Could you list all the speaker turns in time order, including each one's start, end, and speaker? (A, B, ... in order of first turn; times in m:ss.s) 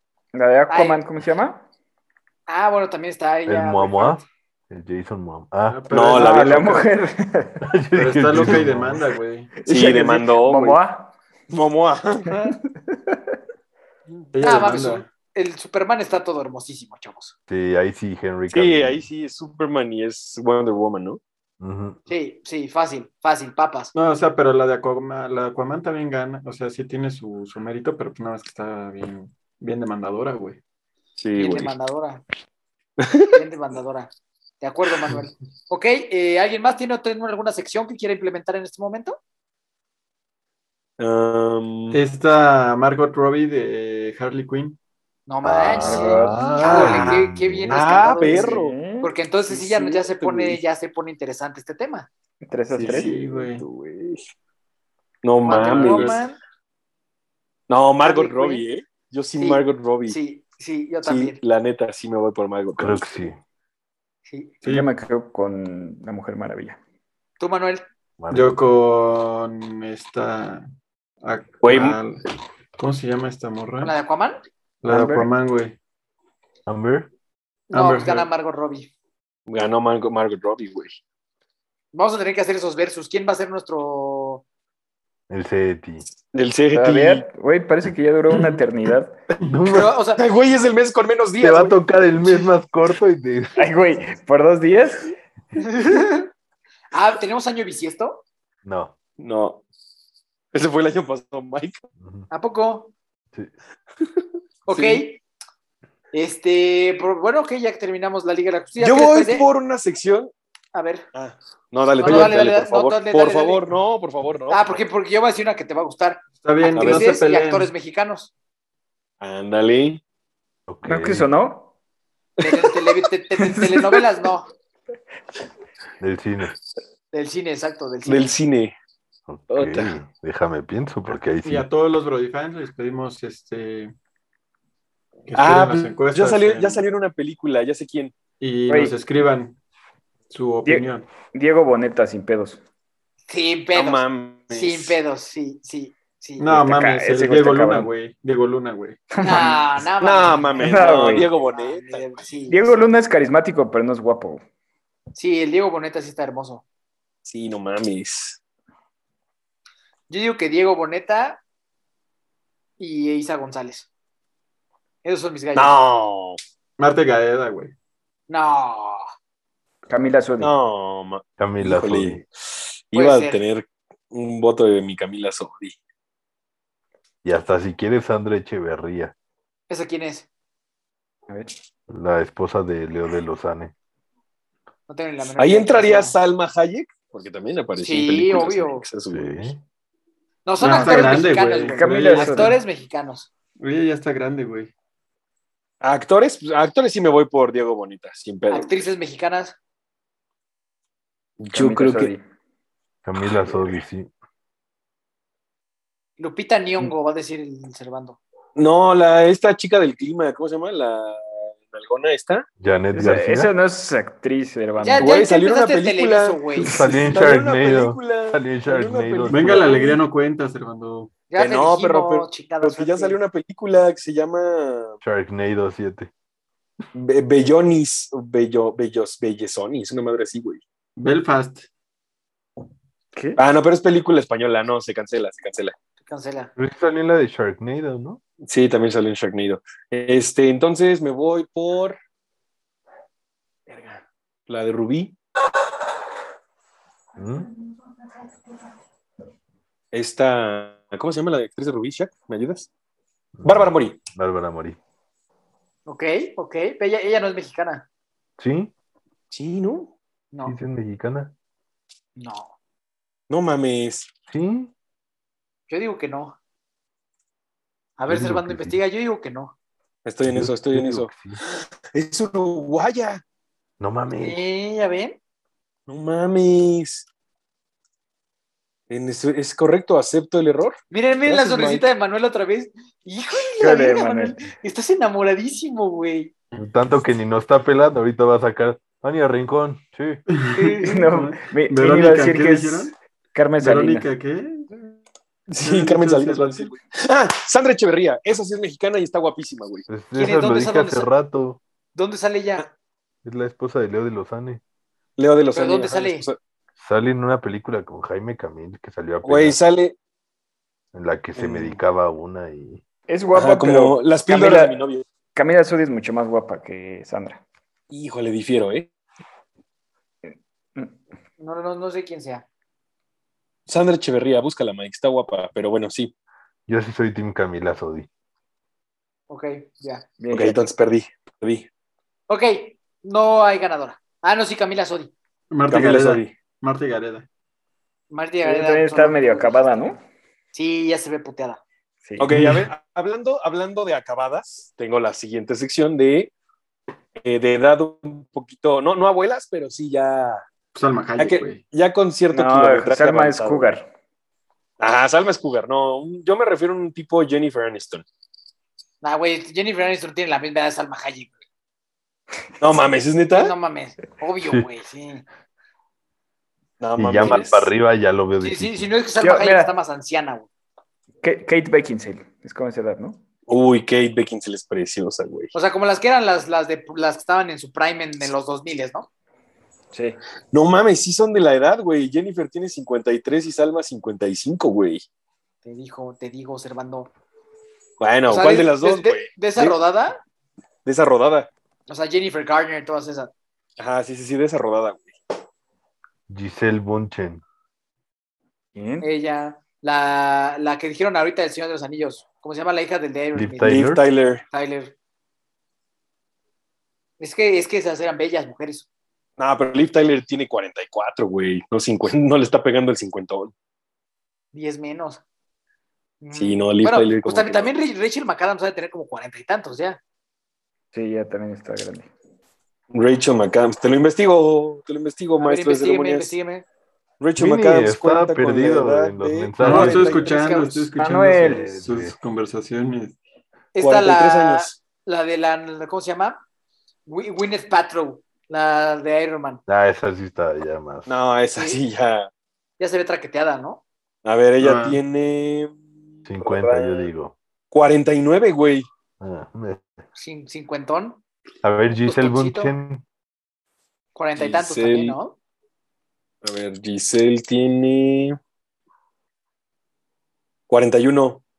0:00.3-0:01.6 A
0:00.7-0:01.0 B
0:02.5-0:04.2 B
0:03.4-0:06.1 C
0:05.7-0:06.8 D
0:05.9-0:06.8 E
0:06.1-0:07.6 A
0:07.6-0:09.0 C
0:07.9-0:09.6 D
0:09.6-0:11.1 A
0:09.6-0:10.8 E
0:11.5-0:12.5 E
0:12.4-0:13.4 A
0:14.3-0:15.1 D
0:14.4-0:17.3 B
0:17.5-0:19.1 C
0:18.5-0:21.2 E
0:21.6-0:22.0 C
0:22.1-0:23.9 B
0:23.9-0:30.6 D
0:31.2-0:31.7 E
0:31.4-0:32.2 B
0:33.0-0:33.4 E
0:33.3-0:39.2 B
0:41.0-0:42.0 E
0:41.9-0:44.8 D
0:45.3-0:52.1 B
0:45.4-0:47.9 C
0:45.8-0:46.8 A
0:46.6-0:48.8 E
0:47.9-0:49.1 A
0:49.5-0:50.6 E
0:52.4-0:53.1 A
0:52.7-0:54.2 E
0:52.8-0:53.6 D
0:55.2-0:56.2 E
0:55.4-0:56.2 D
0:55.4-0:56.4 B
0:57.7-1:00.2 E
0:58.0-0:58.6 B
0:59.4-1:01.4 B
1:01.0-1:03.1 E
1:02.8-1:03.4 C
1:04.3-1:04.5 B
1:04.6-1:04.9 D
1:04.6-1:06.8 A
1:07.4-1:07.8 B
1:08.2-1:08.6 C
1:08.3-1:10.6 D
1:11.2-1:12.2 D
1:11.6-1:12.0 E
1:12.8-1:13.9 D
1:13.8-1:14.4 B
1:14.8-1:15.8 D
1:14.9-1:15.3 A
1:16.7-1:17.1 C
1:17.7-1:18.9 B
1:17.7-1:18.3 D
1:19.5-1:21.0 E
1:21.9-1:24.4 B
1:25.3-1:26.0 C
1:26.3-1:27.2 E
1:26.7-1:29.1 A
1:29.4-1:29.9 C
1:29.7-1:30.2 B
1:30.2-1:31.8 E
1:31.4-1:33.6 C
1:33.6-1:35.1 A
1:35.6-1:36.3 B
1:36.9-1:38.2 B
1:38.6-1:38.9 C
1:39.2-1:39.6 E
1:40.5-1:41.8 E
1:42.0-1:42.3 C
1:42.3-1:42.9 B
1:44.0-1:45.0 E
1:44.7-1:45.2 B
1:46.1-1:49.5 B
1:48.8-1:50.3 E
1:50.7-1:51.1 B
1:51.1-1:54.8 E
1:52.0-1:53.6 B
1:52.1-1:52.3 D
1:54.5-1:58.3 B
1:56.4-1:57.7 D
1:56.7-1:57.2 E
1:59.2-2:00.0 E
2:00.7-2:01.3 C
2:00.8-2:01.7 A
2:02.4-2:04.5 B
2:03.4-2:04.0 A
2:06.0-2:06.5 C
2:07.1-2:08.3 B
2:08.0-2:08.7 E
2:09.3-2:11.7 C
2:09.5-2:10.0 E
2:11.4-2:13.9 D
2:15.3-2:16.8 D
2:15.3-2:18.2 E
2:18.4-2:19.6 D
2:18.7-2:19.0 A
2:20.3-2:21.1 D
2:20.6-2:22.6 A
2:23.3-2:26.5 B
2:23.7-2:25.0 E
2:26.4-2:29.1 D
2:26.5-2:27.9 A
2:29.1-2:29.6 A
2:29.2-2:32.7 B
2:30.0-2:32.2 E
2:30.6-2:31.3 A
2:32.5-2:34.4 A
2:35.1-2:36.6 B
2:37.2-2:38.4 E
2:40.1-2:41.4 B
2:42.8-2:43.9 B
2:45.0-2:45.8 B
2:45.5-2:46.4 E
2:46.8-2:47.7 D
2:48.3-2:49.0 B
2:49.9-2:50.5 A
2:50.4-2:55.8 E
2:51.4-2:52.2 C
2:52.9-2:53.4 B
2:57.2-2:59.1 C
2:59.7-3:00.3 B
3:01.9-3:03.7 C
3:04.9-3:06.2 B
3:05.4-3:09.5 E
3:07.8-3:08.8 B
3:09.1-3:09.6 C
3:10.4-3:13.3 B
3:10.6-3:12.6 D
3:10.6-3:12.6 A
3:13.6-3:14.7 D
3:15.8-3:18.7 E
3:18.5-3:19.5 B
3:21.4-3:22.1 E
3:21.5-3:22.2 A
3:23.0-3:24.1 C
3:26.2-3:28.2 B
3:28.6-3:32.4 E
3:32.6-3:33.5 C
3:32.9-3:35.1 A
3:34.8-3:36.8 B
3:35.0-3:40.0 E
3:36.6-3:39.8 C
3:36.7-3:37.2 D
3:39.3-3:41.1 D
3:41.3-3:43.2 B
3:41.4-3:45.0 E
3:45.0-3:46.1 C
3:46.9-3:50.6 E
3:51.0-3:51.7 D
3:53.1-3:53.4 A
3:53.4-3:55.7 E
3:56.0-3:56.5 B
3:56.6-3:58.2 C
3:58.4-4:02.0 E
4:03.7-4:05.1 E
4:07.2-4:07.5 C
4:09.9-4:12.7 E
4:13.4-4:14.8 C
4:13.4-4:14.0 E
4:15.8-4:17.8 B
4:18.4-4:18.7 C
4:19.3-4:19.9 E
4:20.3-4:20.6 B
4:20.4-4:21.3 C
4:22.2-4:22.5 B
4:23.3-4:24.1 E
4:24.3-4:24.7 C
4:25.7-4:26.4 B
4:28.0-4:29.5 B
4:28.1-4:28.8 C
4:30.0-4:33.2 E
4:30.2-4:31.4 C
4:33.8-4:34.4 C
4:34.2-4:35.2 B
4:35.9-4:37.1 E
4:38.9-4:41.8 E
4:40.9-4:46.3 B
4:43.6-4:44.4 A
4:46.6-4:50.2 C
4:50.4-4:52.9 D
4:50.5-4:51.0 B
4:50.8-4:54.1 A
4:53.6-4:54.7 D
4:55.5-4:59.9 E
4:55.6-4:56.7 D
4:59.9-5:01.6 C
5:00.1-5:01.1 B
5:01.9-5:02.6 B
5:03.2-5:04.6 C
5:05.2-5:06.4 E
5:05.5-5:06.3 B
5:06.8-5:09.6 C
5:09.2-5:09.9 E
5:10.9-5:12.8 C
5:11.4-5:11.8 E
5:13.1-5:14.8 A
5:13.3-5:15.0 E
5:15.3-5:17.4 A
5:17.9-5:18.9 E
5:21.4-5:22.4 B
5:23.7-5:26.1 E
5:26.7-5:28.1 C
5:29.3-5:30.0 B
5:30.2-5:30.6 A
5:30.3-5:31.7 E
5:32.3-5:35.1 B
5:35.5-5:37.2 D
5:35.7-5:36.4 E
5:38.1-5:39.6 B
5:38.4-5:40.0 A
5:40.5-5:41.6 B
5:42.0-5:42.3 A
5:42.2-5:46.3 E
5:42.3-5:42.7 D
5:47.2-5:50.4 E
5:50.7-5:51.6 D
5:51.2-5:53.7 E
5:52.3-5:53.9 A
5:54.8-5:58.0 E
5:59.0-6:01.3 B
6:02.6-6:03.5 E
6:03.3-6:05.2 B
6:06.8-6:07.7 E
6:07.0-6:08.9 C
6:08.4-6:10.5 B
6:09.2-6:09.7 A
6:11.2-6:13.2 A
6:13.5-6:15.5 E
6:15.5-6:19.1 B
6:19.9-6:20.2 A
6:20.5-6:25.0 E
6:25.6-6:27.1 B
6:28.0-6:29.8 E
6:28.3-6:30.2 B
6:30.8-6:31.5 E
6:31.9-6:33.3 B
6:33.8-6:35.1 E
6:36.3-6:37.4 C
6:38.8-6:39.1 A
6:39.0-6:43.8 B
6:43.3-6:44.0 C
6:43.6-6:44.4 E
6:44.5-6:44.9 B
6:47.2-6:48.8 B
6:49.4-6:53.5 E
6:54.5-6:55.2 B
6:56.2-7:00.0 B
6:56.3-6:57.7 E
7:00.9-7:02.1 A
7:02.9-7:06.3 E
7:05.4-7:06.6 B
7:07.2-7:10.4 E
7:07.4-7:10.2 C
7:09.6-7:13.2 D
7:10.1-7:10.9 B
7:11.0-7:11.7 A
7:11.4-7:12.1 C
7:13.7-7:16.4 B
7:13.8-7:14.8 E
7:17.0-7:19.6 B
7:19.7-7:21.1 C
7:21.0-7:22.3 E
7:22.8-7:23.8 B
7:24.2-7:25.8 E
7:24.6-7:25.0 D
7:26.3-7:27.3 C
7:26.4-7:27.1 E
7:27.7-7:28.9 E
7:29.2-7:29.8 C
7:30.2-7:31.2 B
7:31.6-7:33.0 C
7:32.0-7:32.7 B
7:34.1-7:35.3 B
7:34.4-7:35.2 E
7:36.4-7:38.4 E
7:40.7-7:41.4 E